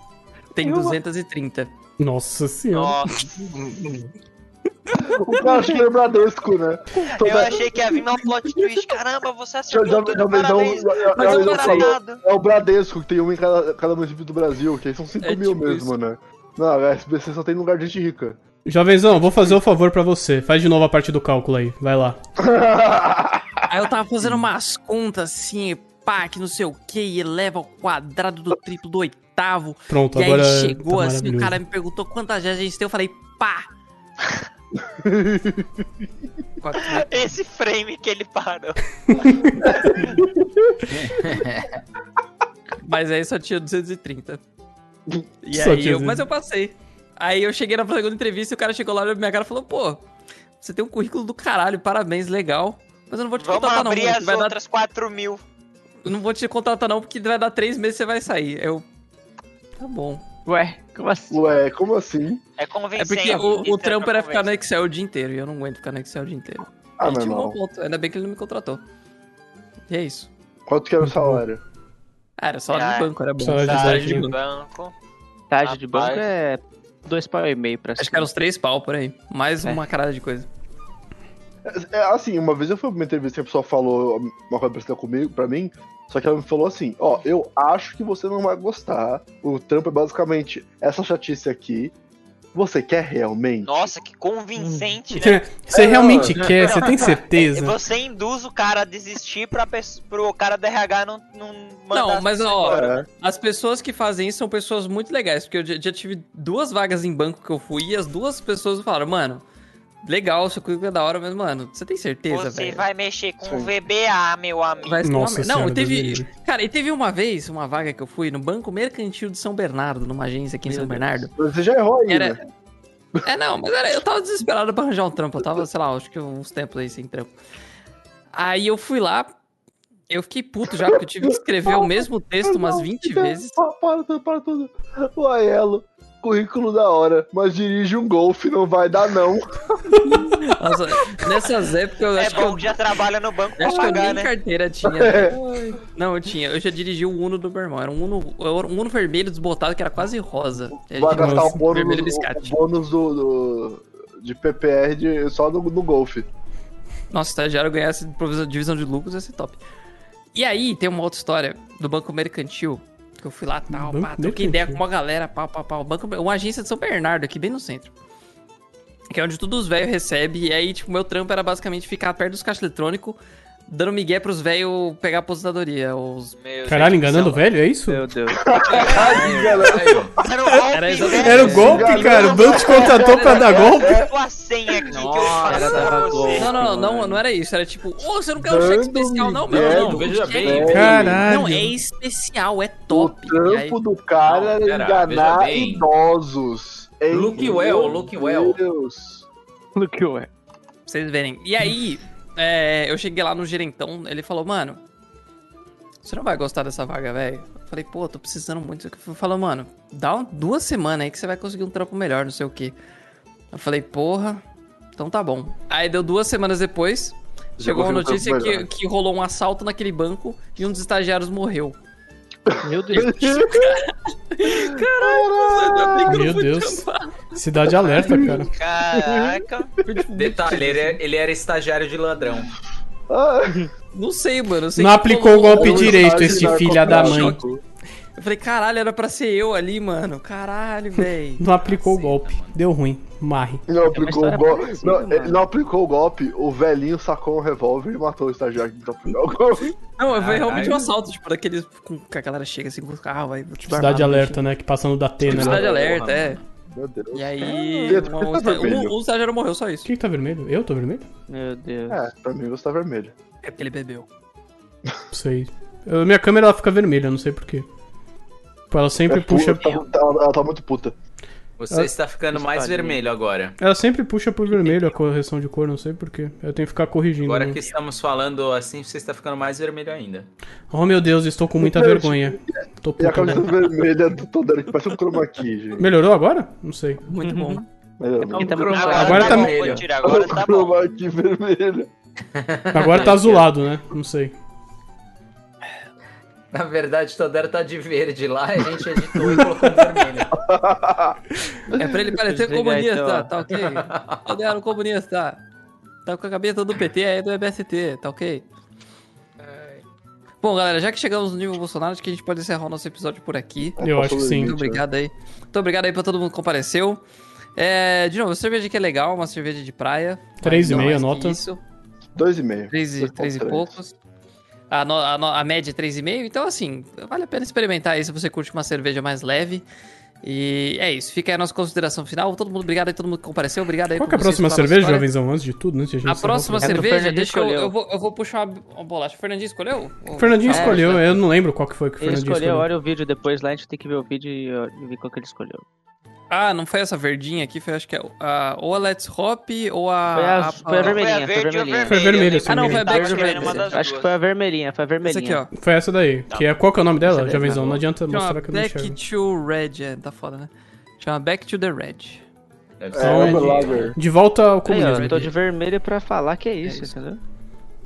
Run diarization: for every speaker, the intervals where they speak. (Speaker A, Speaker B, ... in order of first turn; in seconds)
Speaker A: 0.5-1.7, 3.4-4.1, 4.9-5.7, 11.1-12.0, 15.2-16.0, 23.7-33.7, 36.6-37.3, 42.8-44.4, 45.4-50.0, 50.6-54.6, 56.0-58.9, 59.8-60.2, 63.0-68.8, 69.9-70.3, 72.4-74.4, 78.0-80.5, 101.9-109.4, 110.0-112.9, 114.8-121.3, 122.1-122.4, 123.2-127.3, 128.3-129.3, 130.1-133.6, 140.1-142.8, 143.6-152.6, 157.1-159.6, 160.3-167.9, 169.1-177.4, 180.7-183.8, 186.3-193.8, 200.9-204.8, 206.0-212.8, 213.5-214.4, 215.0-221.8, 222.9-227.2, 229.8-231.0, 233.9-237.4, 238.2-241.4, 250.0-254.4, 255.3-256.4, 257.1-259.9, 263.4-264.1, 287.1-287.6, 301.7-305.4, 306.1-308.4, 310.4-317.0, 317.6-321.6, 322.7-324.0, 324.7-329.6, 330.2-335.1, 336.1-341.2, 346.3-351.0, 352.4-353.8, 355.0-355.5, 358.1-362.2, 364.8-365.2, 366.6-366.9
Speaker B: 0.6-1.0, 60.5-61.6, 75.5-78.3, 120.7-121.2, 177.9-179.7, 184.9-187.2, 199.8-200.3, 222.6-223.2, 243.9-245.4, 257.4-258.1, 261.3-262.1, 272.3-273.1, 287.2-287.6, 288.3-289.9, 302.2-303.3, 336.6-337.7, 340.5-341.0, 342.0-345.6, 350.1-352.1, 352.9-355.4, 357.0-357.8, 364.7-367.2
Speaker C: 2.0-3.0, 18.7-22.2, 29.9-31.6, 39.1-39.9, 45.5-46.3, 71.0-71.5, 73.4-74.3, 95.1-97.8, 115.0-116.3, 151.1-151.6, 163.7-164.8, 176.7-178.0, 180.5-184.0, 190.7-191.8, 226.1-228.5, 234.8-237.4, 241.4-243.7, 253.7-255.6, 259.9-261.1, 265.1-267.7, 268.7-269.8, 273.6-277.6, 280.7-283.7, 285.8-287.0, 289.0-289.6, 292.7-294.3, 313.8-314.6, 320.4-321.4, 333.9-336.9, 340.1-342.7, 351.9-353.0, 355.5-359.0, 363.0-365.3
Speaker D: 2.7-3.3, 7.1-12.2, 36.8-40.2, 53.4-55.4, 62.6-64.5, 72.7-74.9, 75.6-76.2, 93.6-95.5, 96.7-103.1, 112.3-115.0, 142.2-144.3, 176.3-177.1, 178.7-179.2, 180.2-186.6, 228.5-229.7, 288.7-290.8, 350.8-354.1
Speaker E: 5.0-8.0, 8.5-8.8, 9.7-18.4, 22.4-23.6, 34.9-35.7, 39.6-40.8, 61.3-62.4, 67.0-67.6, 70.7-71.6, 81.7-91.9, 92.5-93.9, 95.7-96.5, 113.4-113.7, 121.3-122.4, 132.5-140.5, 144.8-145.4, 150.8-156.3, 178.3-180.1, 181.5-184.1, 188.4-191.0, 192.9-199.2, 217.6-218.7, 222.5-223.7, 224.4-226.3, 227.9-229.4, 233.1-233.7, 235.5-237.6, 243.7-249.7, 255.2-256.1, 256.7-258.9, 261.9-263.1, 269.1-270.9, 281.6-285.9, 288.0-288.8, 290.0-291.9, 300.4-301.2, 313.8-314.8, 320.6-320.9, 322.2-323.7, 362.9-364.0
Speaker F: 40.9-41.8, 145.3-145.8, 178.7-180.2, 181.4-181.7, 185.4-186.2, 189.5-191.2, 194.2-195.9, 197.1-198.6, 227.9-228.2, 230.2-232.5, 241.6-242.6, 250.1-250.9, 255.6-256.4, 271.6-273.6, 277.2-280.3, 288.4-289.9, 292.3-293.5, 296.5-300.4, 303.6-304.3, 309.4-309.8, 362.8-364.0